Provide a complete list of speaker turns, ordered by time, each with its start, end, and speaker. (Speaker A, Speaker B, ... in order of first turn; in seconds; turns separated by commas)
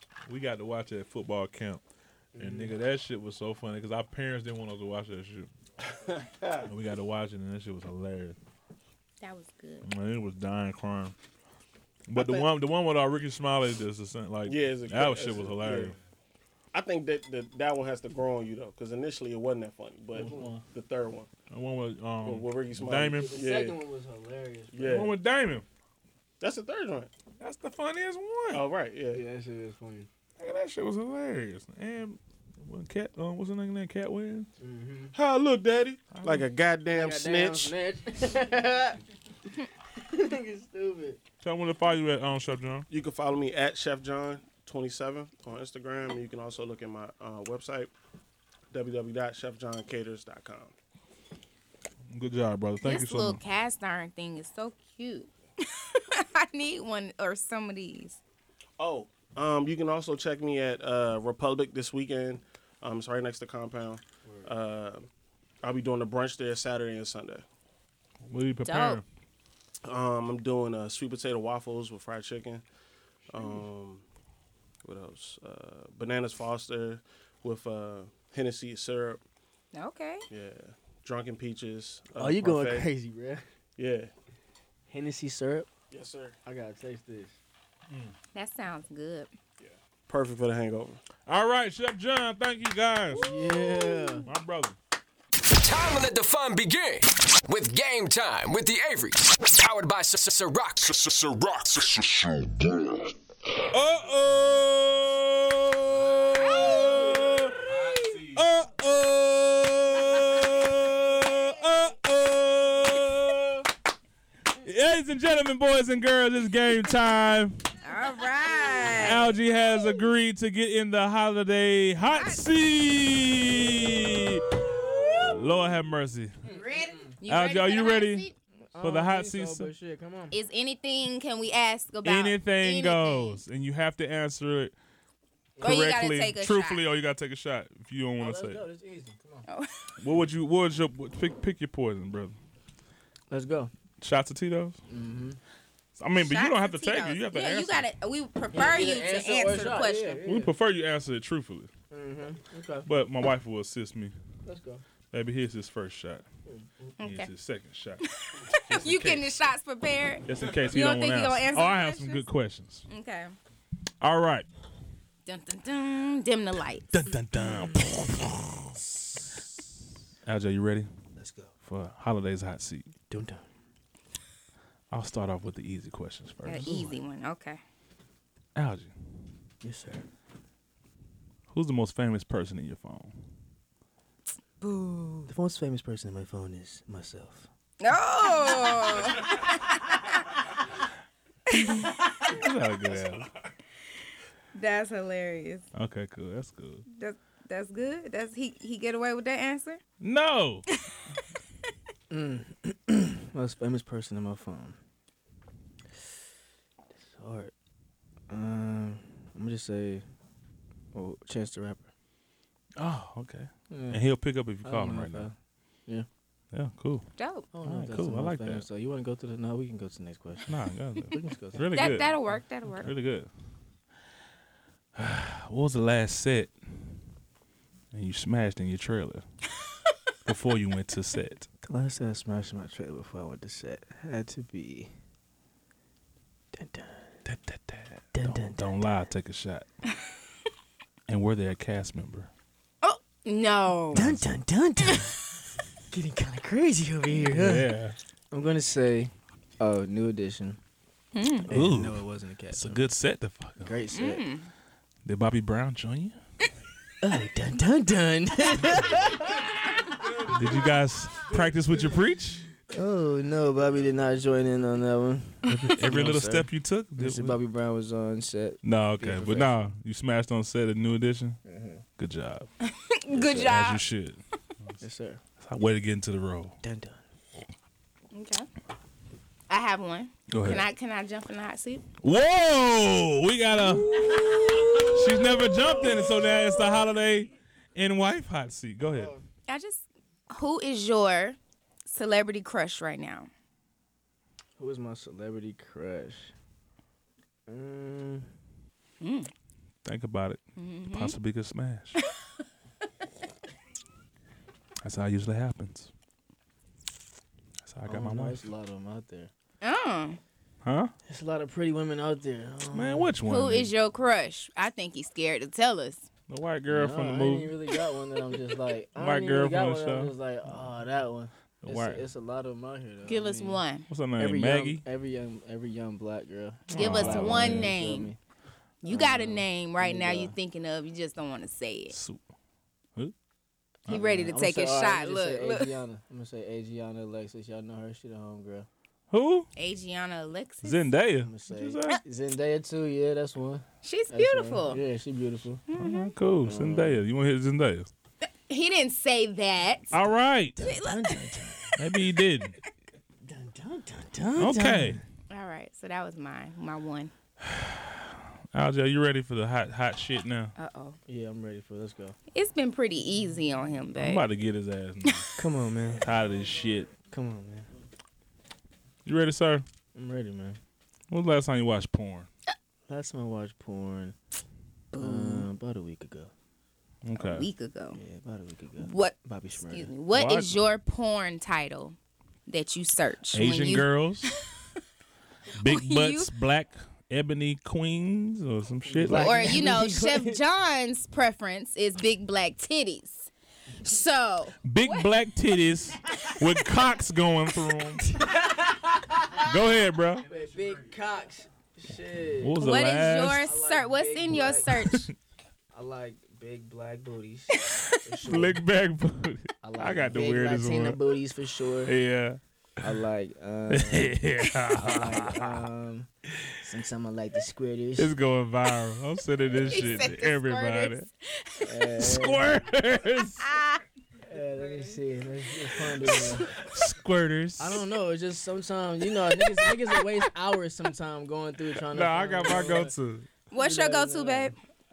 Speaker A: 0.3-1.8, Speaker B: 2.4-2.6, Speaker A: 2.4-5.5, Speaker C: 5.9-6.7, Speaker A: 6.7-8.4, Speaker D: 9.2-9.9, Speaker A: 9.8-11.2, Speaker A: 12.1-15.9, Speaker C: 12.2-12.5, Speaker C: 14.5-15.9, Speaker C: 16.7-21.3, Speaker B: 20.1-20.6, Speaker A: 21.5-23.3, Speaker C: 22.2-23.8, Speaker B: 22.9-25.0, Speaker C: 24.7-25.1, Speaker A: 24.8-25.6, Speaker C: 26.4-27.1, Speaker A: 27.4-28.6, Speaker C: 28.5-29.2, Speaker B: 29.1-30.1, Speaker A: 30.4-34.5, Speaker B: 34.6-35.1, Speaker C: 35.1-37.7, Speaker A: 36.1-36.5, Speaker B: 36.9-39.0, Speaker B: 39.9-41.2, Speaker A: 41.4-42.9, Speaker C: 42.9-47.9, Speaker C: 48.7-50.7, Speaker A: 52.1-53.4, Speaker D: 52.8-58.2, Speaker C: 58.8-65.1, Speaker C: 65.6-67.5, Speaker A: 68.3-69.0, Speaker D: 68.7-69.0, Speaker C: 69.8-72.7, Speaker C: 73.3-74.0, Speaker C: 74.8-79.2, Speaker D: 79.7-80.3, Speaker C: 80.3-82.9, Speaker B: 82.2-83.4, Speaker C: 83.8-84.1, Speaker B: 84.9-85.7, Speaker C: 85.9-86.4, Speaker B: 86.5-87.4, Speaker D: 88.3-89.3, Speaker C: 89.6-91.0, Speaker A: 91.3-93.3, Speaker D: 93.1-94.2, Speaker B: 93.1-94.3, Speaker A: 94.3-94.8, Speaker E: 95.5-103.1, Speaker A: 103.7-113.7, Speaker D: 106.4-107.2, Speaker D: 107.9-108.2, Speaker A: 114.6-117.6, Speaker D: 117.8-119.3, Speaker A: 119.0-126.3, Speaker D: 122.1-122.4, Speaker B: 126.5-127.1, Speaker D: 126.5-128.3, Speaker A: 127.3-128.3, Speaker B: 128.7-130.3, Speaker A: 128.8-129.7, Speaker D: 130.3-133.4, Speaker A: 132.0-134.7, Speaker B: 135.6-135.8, Speaker A: 135.6-138.6, Speaker D: 135.6-136.8, Speaker B: 138.2-139.5, Speaker D: 139.5-139.9, Speaker A: 140.0-142.3, Speaker B: 143.3-143.7, Speaker A: 144.0-144.8, Speaker B: 144.9-145.4, Speaker A: 146.0-147.9, Speaker D: 146.2-150.2, Speaker B: 148.5-150.5, Speaker A: 150.2-151.7, Speaker B: 151.9-152.9, Speaker A: 152.9-154.1, Speaker B: 154.4-154.8, Speaker A: 155.1-156.2, Speaker B: 156.5-156.7, Speaker D: 157.0-157.3, Speaker A: 157.0-159.3, Speaker D: 158.1-162.2, Speaker A: 160.3-162.9, Speaker D: 162.9-163.3, Speaker A: 164.0-164.5, Speaker D: 165.3-166.9, Speaker A: 166.9-168.8, Speaker B: 167.4-167.8, Speaker B: 168.8-169.2, Speaker A: 170.2-170.9, Speaker B: 171.2-171.5, Speaker A: 171.6-172.9, Speaker B: 173.1-173.5, Speaker A: 174.9-176.9, Speaker D: 176.4-177.6, Speaker B: 176.6-176.9, Speaker A: 178.6-178.9, Speaker B: 179.6-180.1, Speaker A: 181.5-183.1, Speaker D: 184.6-185.3, Speaker B: 185.3-187.5, Speaker D: 187.8-190.2, Speaker D: 191.5-191.9, Speaker A: 191.6-193.3, Speaker D: 194.5-195.7, Speaker A: 195.8-196.8, Speaker D: 196.9-199.8, Speaker A: 200.0-200.7, Speaker B: 202.1-204.8, Speaker B: 206.9-207.5, Speaker B: 208.3-210.0, Speaker B: 210.9-211.9, Speaker A: 212.8-215.3, Speaker B: 213.7-214.0, Speaker B: 214.6-215.3, Speaker A: 216.5-217.1, Speaker D: 217.2-217.5, Speaker B: 217.5-220.5, Speaker A: 217.7-218.7, Speaker A: 220.5-222.2, Speaker B: 221.1-222.0, Speaker D: 221.7-222.9, Speaker A: 222.8-223.3, Speaker A: 225.0-226.9, Speaker A: 227.9-229.2, Speaker A: 230.2-231.5, Speaker B: 231.6-234.9, Speaker B: 236.5-237.2, Speaker A: 237.3-239.7, Speaker B: 238.1-238.7, Speaker A: 241.1-242.3, Speaker D: 242.8-244.0, Speaker A: 243.9-244.3, Speaker B: 243.9-245.2, Speaker D: 244.8-245.1, Speaker B: 245.9-247.7, Speaker A: 247.3-248.0, Speaker B: 248.3-250.6, Speaker D: 251.1-251.5, Speaker B: 251.5-252.9, Speaker A: 251.5-253.8, Speaker B: 253.6-254.2, Speaker D: 253.9-254.5, Speaker A: 255.1-256.2, Speaker B: 257.0-259.5, Speaker A: 260.2-262.5, Speaker B: 262.7-269.6, Speaker A: 265.5-267.4, Speaker A: 268.6-271.4, Speaker B: 271.4-271.8, Speaker A: 272.0-272.5, Speaker D: 272.6-273.8, Speaker B: 273.1-273.6, Speaker A: 273.4-274.8, Speaker B: 274.8-275.2, Speaker A: 275.4-276.6, Speaker B: 276.6-277.0, Speaker D: 278.1-278.5, Speaker D: 279.5-281.9, Speaker A: 280.3-280.7, Speaker A: 282.0-289.1, Speaker D: 283.6-285.0, Speaker B: 288.9-289.2, Speaker D: 289.5-293.3, Speaker B: 294.6-296.3, Speaker B: 297.5-298.3, Speaker D: 299.0-299.3, Speaker A: 299.8-302.0, Speaker D: 300.6-301.1, Speaker A: 304.8-305.9, Speaker A: 307.6-308.4, Speaker B: 307.9-309.3, Speaker D: 309.6-310.2, Speaker A: 310.6-310.9, Speaker B: 311.1-313.1, Speaker A: 312.7-313.7, Speaker D: 313.3-316.1, Speaker A: 316.3-317.5, Speaker B: 316.7-323.6, Speaker A: 319.0-320.1, Speaker A: 321.6-322.0, Speaker D: 323.1-323.9, Speaker A: 323.9-324.8, Speaker B: 324.2-328.2, Speaker D: 326.7-328.1, Speaker A: 326.7-327.7, Speaker D: 328.8-331.9, Speaker B: 328.9-330.4, Speaker A: 331.9-332.2, Speaker A: 333.9-334.2, Speaker D: 333.9-335.7, Speaker B: 333.9-338.7, Speaker A: 339.1-339.5, Speaker D: 339.6-340.9, Speaker A: 340.6-342.0, Speaker B: 341.2-345.6, Speaker D: 343.8-344.8, Speaker D: 345.7-346.1, Speaker A: 345.8-347.9, Speaker B: 346.4-347.0, Speaker D: 348.5-350.0, Speaker A: 349.9-350.7, Speaker B: 350.6-351.8, Speaker D: 350.6-351.3, Speaker A: 351.8-352.6, Speaker B: 353.2-355.0, Speaker A: 354.4-355.0, Speaker D: 355.3-357.1, Speaker A: 357.4-360.5, Speaker D: 360.6-361.0, Speaker B: 361.1-362.2, Speaker D: 362.3-364.2, Speaker A: 364.0-365.2, Speaker B: 365.4-366.1, Speaker A: 366.0-366.9, Speaker B: 367.1-367.7, Speaker A: 369.1-369.6, Speaker B: 369.9-370.6, Speaker A: 371.1-372.3, Speaker B: 372.9-374.1, Speaker D: 374.9-375.5, Speaker B: 375.0-376.3, Speaker A: 377.0-377.5, Speaker D: 377.1-378.0, Speaker B: 377.9-379.9, Speaker D: 378.8-379.1, Speaker D: 379.7-382.0, Speaker A: 380.1-380.6, Speaker D: 382.5-383.9, Speaker A: 383.3-384.3, Speaker A: 385.6-389.6, Speaker D: 385.6-386.3, Speaker B: 388.9-390.4, Speaker D: 389.1-395.1, Speaker A: 394.6-398.2, Speaker B: 398.1-399.4, Speaker A: 399.4-400.3, Speaker B: 400.2-402.6, Speaker A: 402.4-403.5, Speaker D: 402.6-405.1, Speaker B: 403.4-404.7, Speaker A: 404.7-405.1, Speaker B: 405.7-408.6, Speaker A: 408.2-411.0, Speaker B: 409.6-411.9, Speaker A: 411.9-412.4, Speaker B: 412.8-414.2, Speaker A: 413.7-415.6, Speaker B: 414.7-416.1, Speaker B: 416.6-418.1, Speaker A: 418.0-421.1, Speaker D: 419.6-421.9, Speaker B: 421.6-422.5, Speaker A: 422.0-423.4, Speaker D: 423.4-423.8, Speaker B: 424.2-426.5, Speaker A: 426.3-427.8, Speaker B: 427.6-432.9, Speaker D: 429.4-430.0, Speaker A: 431.9-433.3, Speaker D: 433.5-434.6, Speaker B: 433.6-434.6